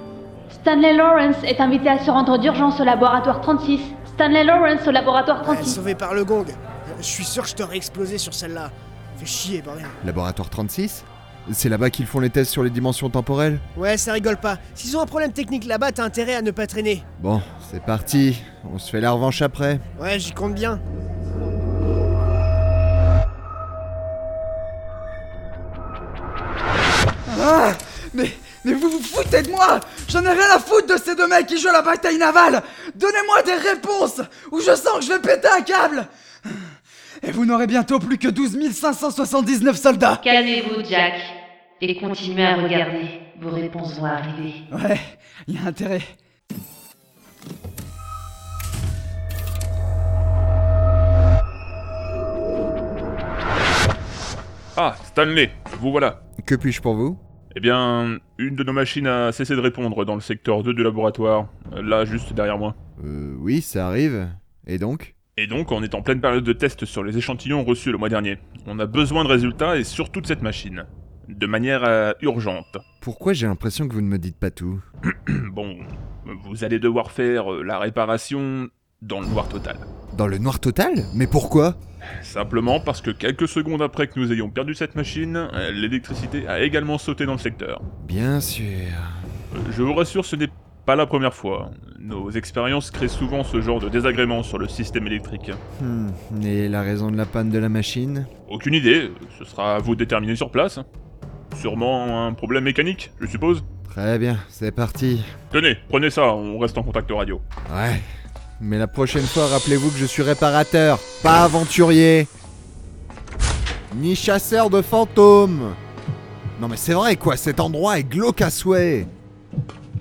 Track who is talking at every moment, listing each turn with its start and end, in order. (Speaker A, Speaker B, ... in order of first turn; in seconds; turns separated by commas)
Speaker A: 0.5-5.8, Speaker B: 5.4-10.0, Speaker C: 10.0-13.6, Speaker B: 13.8-17.0, Speaker C: 17.2-19.8, Speaker B: 20.0-20.8, Speaker D: 27.3-36.7, Speaker D: 37.2-40.2, Speaker E: 40.2-44.6, Speaker D: 44.7-46.1, Speaker F: 54.8-56.2, Speaker C: 56.4-57.2, Speaker F: 57.5-62.8, Speaker C: 63.0-65.2, Speaker F: 65.4-72.8, Speaker C: 73.0-74.8, Speaker F: 75.1-79.9, Speaker C: 80.1-81.8, Speaker F: 82.2-87.8, Speaker C: 88.0-89.1, Speaker F: 89.5-95.6, Speaker C: 95.8-98.3, Speaker F: 98.5-100.9, Speaker F: 101.5-103.7, Speaker C: 103.9-105.3, Speaker F: 105.5-107.4, Speaker C: 107.7-108.0, Speaker C: 108.6-112.3, Speaker C: 113.9-115.8, Speaker C: 116.6-119.1